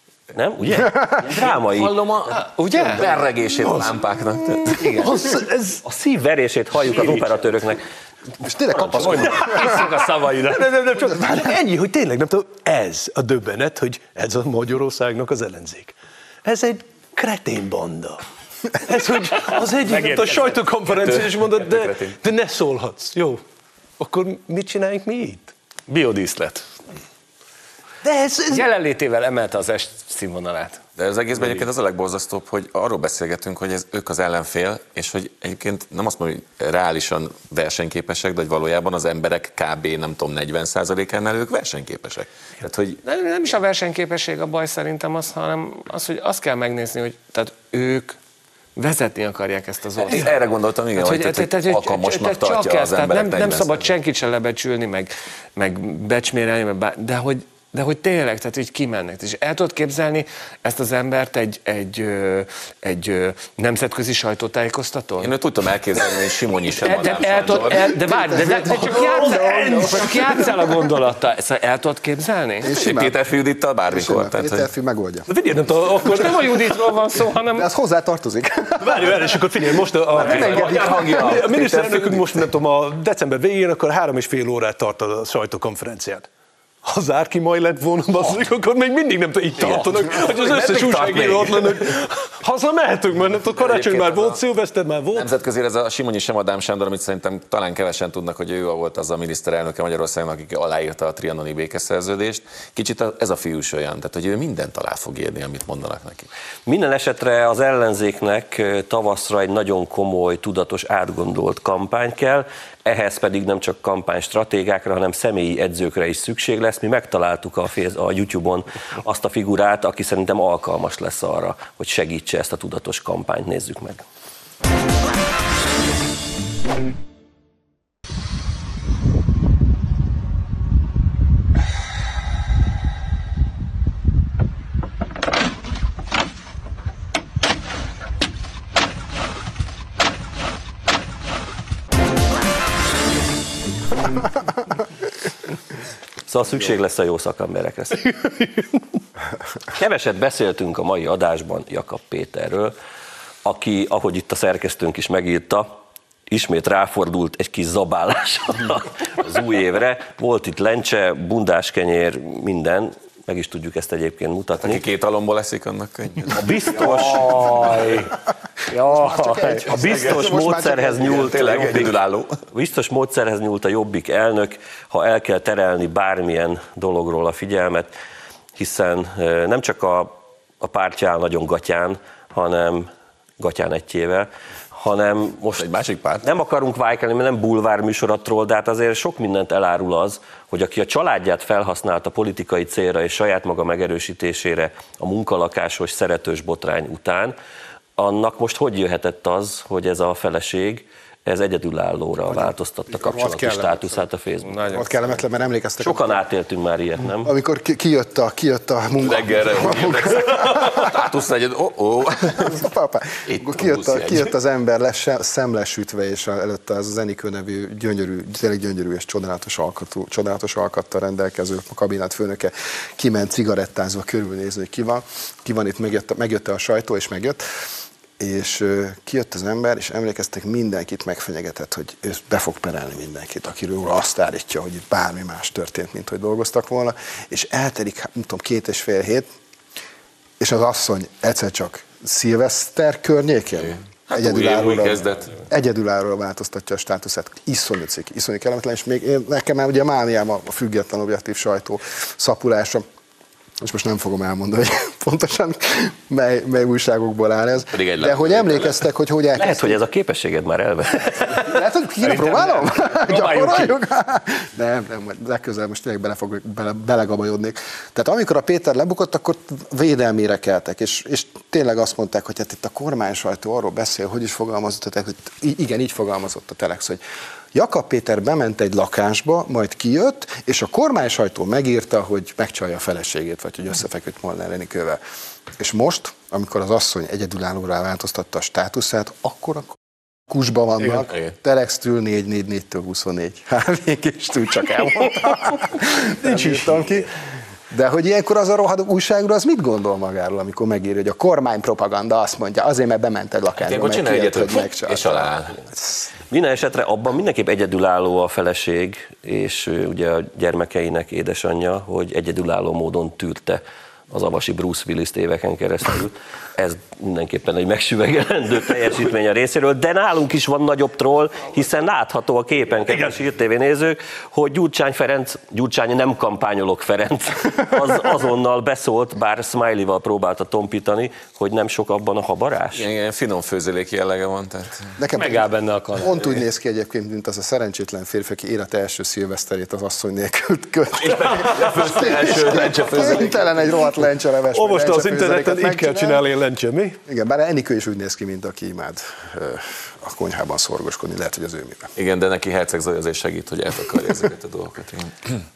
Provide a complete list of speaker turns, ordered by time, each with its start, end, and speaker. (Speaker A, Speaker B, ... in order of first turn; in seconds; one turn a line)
Speaker A: 0.3-1.9
Speaker B: 1.2-4.9
Speaker C: 2.3-3.0
Speaker D: 3.6-5.8
Speaker C: 4.8-5.1
Speaker A: 5.8-7.8
Speaker C: 6.9-7.3
Speaker E: 8.4-9.8
Speaker A: 8.7-9.2
Speaker C: 9.0-10.7
Speaker D: 10.5-23.4
Speaker C: 19.6-22.1
Speaker D: 24.0-25.5
Speaker C: 25.9-26.7
Speaker D: 28.0-28.7
Speaker C: 28.5-30.8
Speaker B: 31.0-43.0
Speaker C: 43.0-48.2
Speaker C: 48.8-50.3
Speaker B: 50.0-53.9
Speaker C: 51.0-65.3
Speaker B: 65.2-68.0
Speaker C: 66.8-72.7
Speaker E: 67.7-70.5
Speaker D: 68.6-70.9
Speaker E: 72.6-73.2
Speaker B: 72.7-74.7
Speaker E: 73.9-75.3
Speaker D: 75.3-77.2
Speaker C: 76.0-77.7
Speaker E: 77.5-79.4
Speaker D: 78.8-86.3
Speaker E: 80.0-81.4
Speaker B: 80.1-82.4
Speaker D: 86.8-95.3
Speaker B: 89.6-91.9
Speaker B: 93.5-94.4
Speaker B: 95.1-106.3
Speaker A: 106.7-124.0
Speaker A: 146.3-148.1
Speaker D: 148.0-148.9
Speaker A: 149.7-152.7
Speaker A: 153.4-155.8
Speaker A: 156.3-164.8
Speaker B: 164.6-166.4
Speaker A: 166.3-167.3
Speaker C: 166.6-168.2
Speaker C: 168.7-169.7
Speaker E: 168.8-171.6
Speaker A: 169.7-171.9
Speaker B: 169.8-170.3
Speaker B: 171.0-172.4
Speaker A: 172.5-177.9
Speaker A: 178.6-185.7
Speaker B: 185.6-186.2
Speaker A: 186.2-197.3
Speaker A: 198.0-204.7
Speaker E: 202.3-204.0
Speaker C: 204.4-205.2
Speaker E: 204.7-206.2
Speaker A: 205.8-207.3
Speaker E: 207.2-210.9
Speaker B: 209.0-212.6
Speaker E: 212.4-227.4
Speaker B: 213.2-214.3
Speaker E: 228.2-239.3
Speaker E: 240.4-252.8
Speaker B: 243.7-245.3
Speaker E: 253.6-259.8
Speaker B: 257.7-258.8
Speaker A: 259.4-261.5
Speaker E: 261.4-277.0
Speaker C: 262.0-263.8
Speaker E: 277.5-285.0
Speaker E: 285.6-297.1
Speaker D: 296.1-297.1
Speaker E: 297.7-306.1
Speaker B: 303.6-305.6
Speaker A: 306.3-332.8
Speaker D: 322.9-323.1
Speaker B: 332.7-334.9
Speaker E: 335.0-346.2
Speaker C: 335.1-336.2
Speaker B: 341.0-343.7
Speaker D: 344.5-347.0
Speaker E: 347.1-351.9
Speaker B: 351.9-355.4